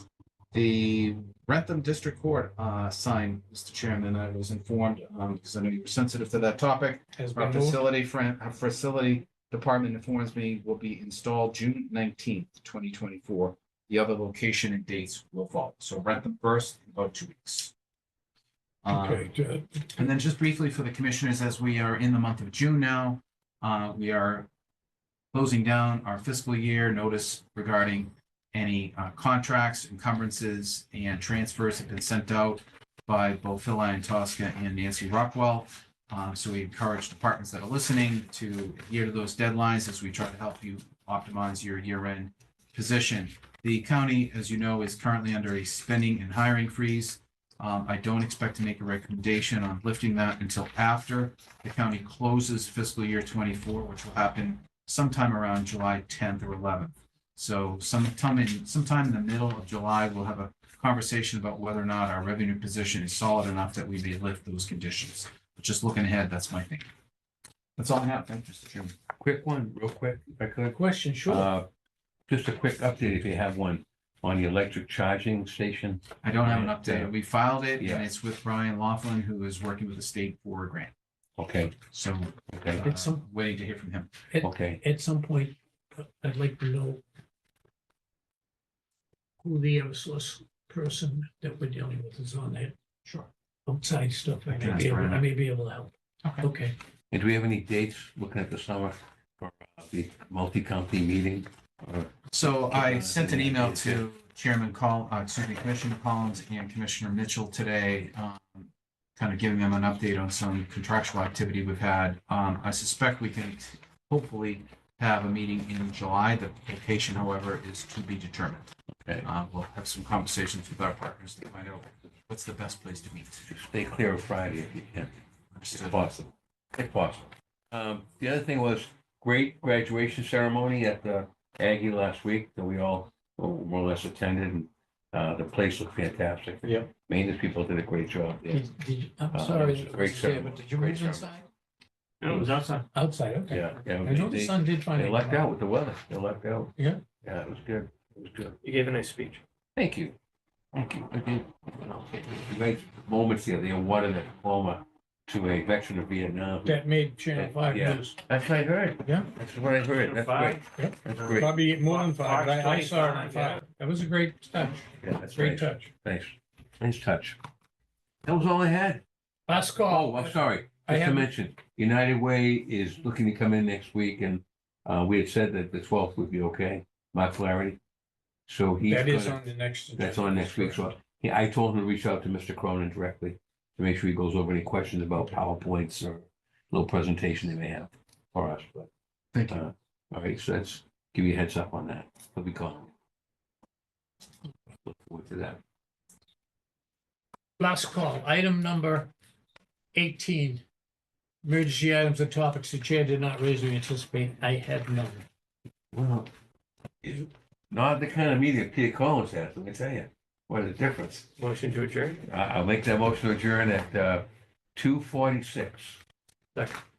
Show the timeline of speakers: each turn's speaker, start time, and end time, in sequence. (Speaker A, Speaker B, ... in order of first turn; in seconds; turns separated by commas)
Speaker A: 0.5-17.7, Speaker B: 7.2-7.8, Speaker A: 18.8-19.3, Speaker B: 18.9-20.1, Speaker A: 19.9-24.5, Speaker A: 25.3-66.9, Speaker A: 67.8-68.9, Speaker C: 69.2-71.7, Speaker B: 70.7-71.5, Speaker C: 72.3-77.1, Speaker A: 76.2-80.9, Speaker C: 77.8-78.0, Speaker C: 81.4-81.8, Speaker A: 81.9-84.1, Speaker C: 82.5-82.9, Speaker B: 82.8-83.2, Speaker B: 84.3-87.0, Speaker C: 84.4-84.8, Speaker B: 89.4-96.8, Speaker A: 94.5-95.2, Speaker C: 97.1-104.0, Speaker A: 102.3-118.7, Speaker A: 119.2-123.5, Speaker C: 123.5-125.1, Speaker A: 125.5-126.1, Speaker C: 125.7-138.7, Speaker D: 136.6-136.9, Speaker B: 138.5-141.4, Speaker C: 139.3-141.3, Speaker D: 142.2-142.9, Speaker B: 142.3-145.4, Speaker C: 143.5-148.6, Speaker D: 148.6-149.4, Speaker C: 149.8-150.1, Speaker C: 150.7-161.5, Speaker B: 156.6-158.2, Speaker B: 159.0-159.3, Speaker D: 159.9-160.6, Speaker B: 160.7-165.9, Speaker D: 161.2-163.6, Speaker C: 165.0-167.4, Speaker C: 168.2-169.0, Speaker B: 169.5-171.3, Speaker C: 169.8-177.8, Speaker C: 178.5-179.4, Speaker B: 178.8-180.9, Speaker C: 179.9-188.9, Speaker A: 189.3-189.6, Speaker C: 189.5-192.9, Speaker C: 194.8-195.6, Speaker B: 197.6-199.1, Speaker B: 199.9-200.6, Speaker B: 201.4-205.2, Speaker C: 205.9-206.3, Speaker C: 207.0-211.3, Speaker D: 211.4-212.2, Speaker C: 212.3-216.0